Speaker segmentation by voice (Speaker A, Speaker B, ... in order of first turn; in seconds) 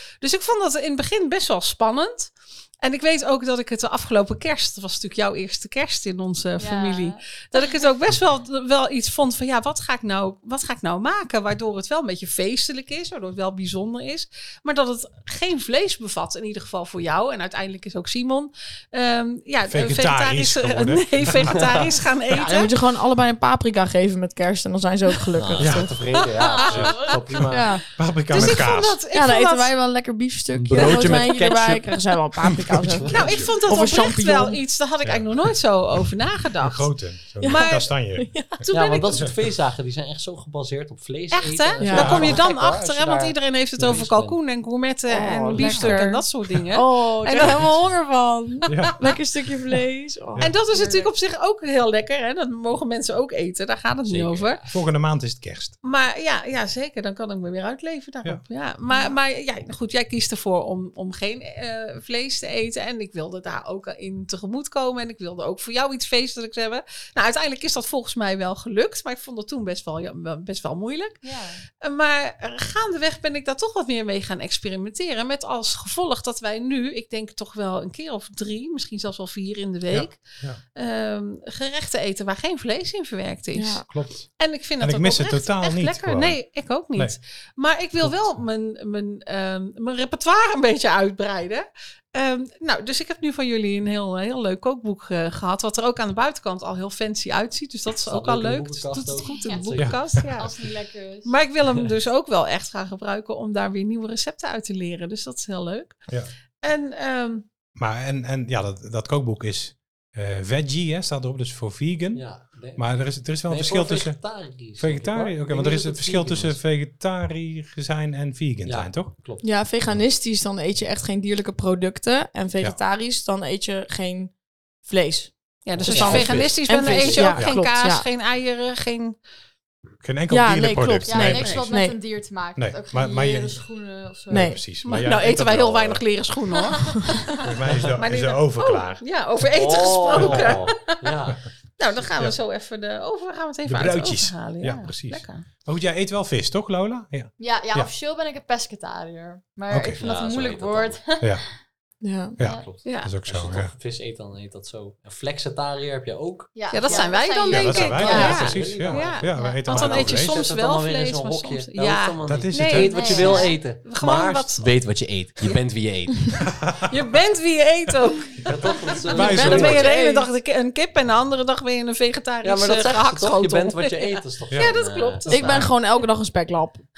Speaker A: 0.2-22.7, 26.5-27.1, 28.3-29.7, 30.7-31.3, 33.1-37.9, 38.7-39.2, 41.3-47.6, 48.8-49.1, 50.4-54.6, 55.8-71.2, 71.8-80.2, 80.8-83.8, 84.4-100.5, 101.2-106.0, 106.6-107.5, 125.7-129.2, 134.8-137.2, 138.0-141.0, 141.8-145.5, 152.8-153.1, 156.7-164.8, 166.9-175.7
Speaker B: 6.6-7.9, 26.4-27.2, 71.2-71.6, 99.2-99.8, 100.3-101.3, 131.1-134.6, 136.8-137.5, 147.4-151.5, 156.6-159.7, 162.8-163.6
Speaker C: 19.7-21.9, 25.6-26.1, 26.7-29.0, 32.5-33.6, 35.0-35.5, 36.6-39.4, 41.9-42.4, 45.7-46.0, 47.4-47.8, 48.7-49.0, 50.3-50.6, 54.7-55.8, 79.9-80.6, 83.9-84.3, 84.8-86.4, 88.0-88.4, 99.8-100.3, 107.8-114.2, 114.8-119.2, 125.8-126.6, 127.3-127.6, 130.0-131.7, 132.6-133.6, 134.3-136.1, 137.4-139.0, 140.1-140.7, 143.7-147.9, 149.7-150.0, 152.4-153.7, 157.5-160.4, 162.2-163.4, 166.4-167.0, 169.1-169.9, 174.5-174.8
Speaker D: 22.3-25.9, 27.5-34.6, 37.4-38.6, 41.8-42.3, 45.1-51.1, 83.5-83.8, 119.4-124.3, 124.8-128.1, 130.3-132.0, 134.3-134.6, 137.0-137.2, 152.0-152.4, 169.2-170.3, 175.3-176.8
Speaker E: 25.4-27.7, 30.5-32.0, 38.7-44.4, 54.0-54.8, 98.0-100.7, 112.1-116.6, 118.7-119.5, 125.8-127.3, 139.5-141.4, 150.0-151.0, 152.4-157.1, 157.9-166.4, 168.4-169.9, 172.4-175.7